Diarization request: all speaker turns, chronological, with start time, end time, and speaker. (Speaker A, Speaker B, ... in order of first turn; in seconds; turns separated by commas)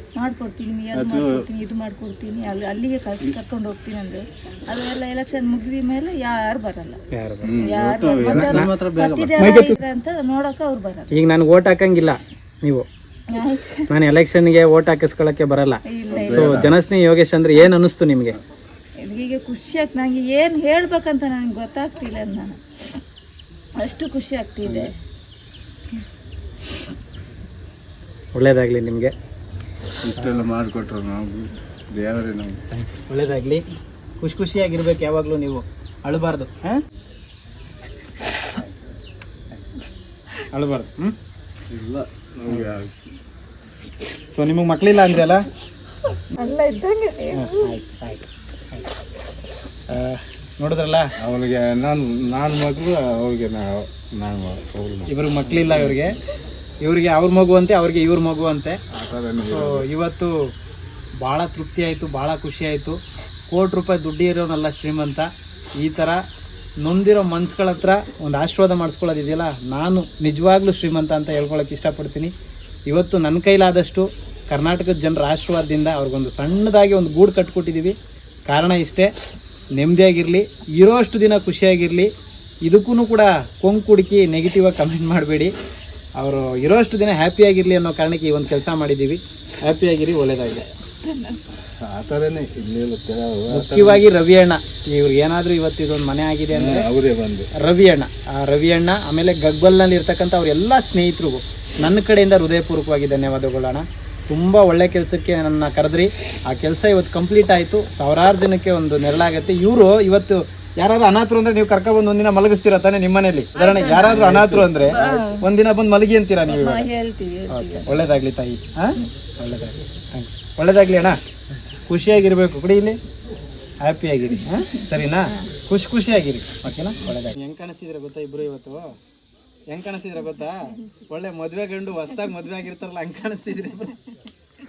Speaker A: 0.1-7.0, Speaker B: 0.9-1.4, Speaker C: 7.1-7.5, Speaker B: 7.4-9.4, Speaker A: 7.6-11.2, Speaker C: 8.2-8.7, Speaker C: 9.4-9.8, Speaker C: 11.1-12.8, Speaker A: 13.3-13.9, Speaker C: 13.9-18.4, Speaker A: 15.8-16.6, Speaker B: 16.1-16.8, Speaker A: 19.0-22.6, Speaker A: 23.8-24.9, Speaker B: 24.6-24.9, Speaker C: 28.3-29.1, Speaker B: 30.0-32.6, Speaker C: 32.7-33.6, Speaker C: 34.2-36.8, Speaker C: 40.5-41.1, Speaker B: 41.7-43.0, Speaker C: 42.5-42.8, Speaker C: 44.3-45.5, Speaker A: 46.1-47.7, Speaker C: 47.3-48.9, Speaker C: 49.9-51.1, Speaker B: 51.2-56.0, Speaker C: 55.1-56.2, Speaker C: 56.8-58.8, Speaker B: 58.9-59.8, Speaker C: 59.4-60.3, Speaker C: 61.2-63.0, Speaker C: 63.5-66.2, Speaker C: 66.8-72.3, Speaker C: 72.9-78.0, Speaker C: 78.5-79.1, Speaker C: 79.8-82.1, Speaker C: 82.6-85.5, Speaker C: 86.2-90.7, Speaker A: 91.0-91.4, Speaker B: 91.8-94.0, Speaker C: 93.5-96.9, Speaker B: 96.5-97.5, Speaker C: 97.6-116.8, Speaker A: 113.5-115.5, Speaker B: 114.2-114.6, Speaker A: 116.4-118.1, Speaker C: 117.5-121.2, Speaker C: 121.9-123.0, Speaker C: 123.8-128.9, Speaker A: 124.6-125.5, Speaker C: 129.7-134.0